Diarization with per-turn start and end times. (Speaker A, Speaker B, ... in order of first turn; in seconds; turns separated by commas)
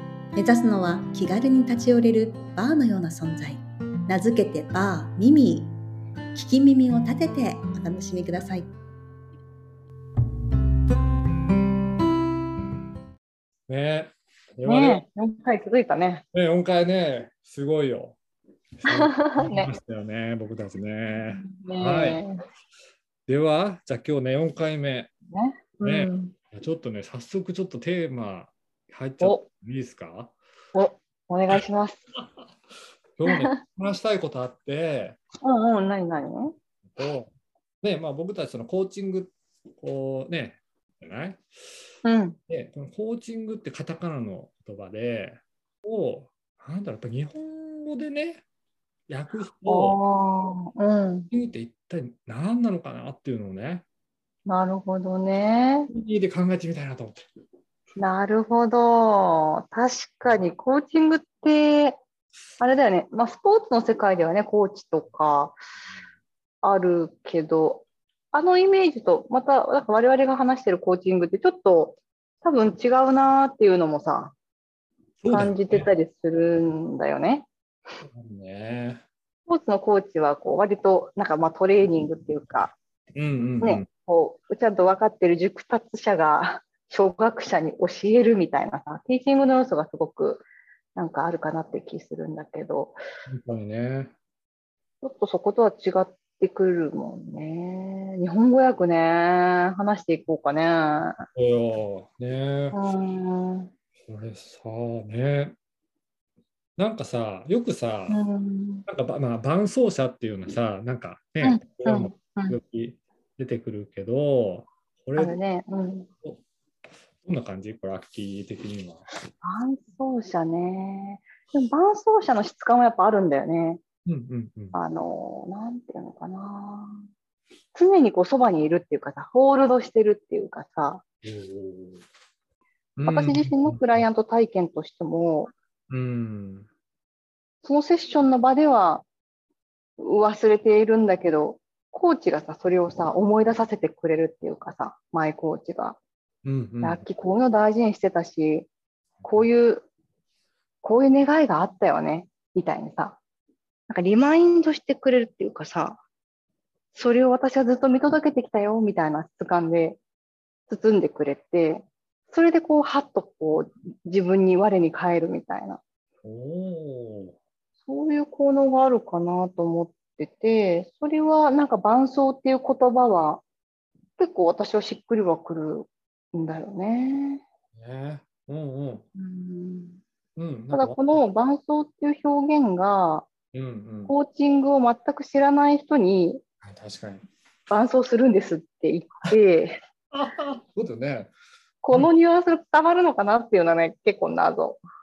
Speaker A: 0.4-5.7, Speaker A: 6.3-8.7, Speaker B: 13.7-15.0, Speaker C: 14.7-16.2, Speaker B: 16.3-18.2, Speaker B: 18.8-22.2, Speaker C: 18.9-19.7, Speaker C: 21.3-22.4, Speaker B: 23.3-25.1, Speaker C: 25.3-26.3, Speaker B: 25.8-30.3, Speaker C: 30.7-32.0, Speaker B: 33.2-35.2, Speaker C: 33.3-33.6, Speaker C: 35.4-36.5, Speaker B: 36.9-37.3, Speaker B: 37.8-41.4, Speaker C: 42.0-42.4, Speaker B: 42.5-48.4, Speaker B: 49.1-50.0, Speaker C: 49.7-51.3, Speaker B: 51.3-53.9, Speaker C: 54.5-55.9, Speaker B: 55.9-57.3, Speaker C: 58.0-62.0, Speaker C: 62.6-65.5, Speaker C: 66.6-74.3, Speaker B: 75.2-75.9, Speaker C: 75.3-77.5, Speaker B: 78.0-79.0, Speaker C: 79.5-82.7, Speaker B: 83.1-83.9, Speaker C: 83.6-90.4, Speaker C: 91.0-93.0, Speaker B: 93.3-94.1, Speaker C: 95.0-101.2, Speaker B: 101.3-102.8, Speaker C: 102.7-103.7, Speaker B: 104.0-105.5, Speaker B: 106.8-108.2, Speaker C: 108.1-108.8, Speaker B: 108.8-115.4, Speaker C: 111.4-112.5, Speaker C: 115.2-116.1, Speaker B: 117.2-119.0, Speaker C: 119.4-123.8, Speaker B: 124.0-124.8, Speaker C: 124.7-127.0, Speaker C: 127.7-131.0, Speaker B: 131.2-132.0, Speaker B: 133.0-134.1, Speaker C: 133.1-135.5, Speaker B: 135.9-136.7, Speaker C: 137.6-139.1, Speaker C: 140.0-146.0, Speaker B: 146.4-147.0, Speaker C: 146.8-148.7, Speaker B: 149.2-149.5, Speaker C: 149.2-149.9, Speaker C: 150.8-153.2, Speaker C: 153.9-156.0, Speaker C: 156.9-160.0, Speaker C: 160.7-165.8, Speaker B: 166.2-167.3, Speaker C: 167.9-173.4, Speaker C: 174.2-177.4, Speaker B: 177.8-179.1, Speaker C: 179.2-180.0, Speaker B: 180.4-181.2, Speaker C: 180.7-183.3, Speaker B: 183.5-184.1, Speaker C: 184.1-186.4, Speaker B: 186.6-187.2, Speaker C: 187.7-189.8, Speaker B: 190.1-191.3, Speaker C: 191.8-194.8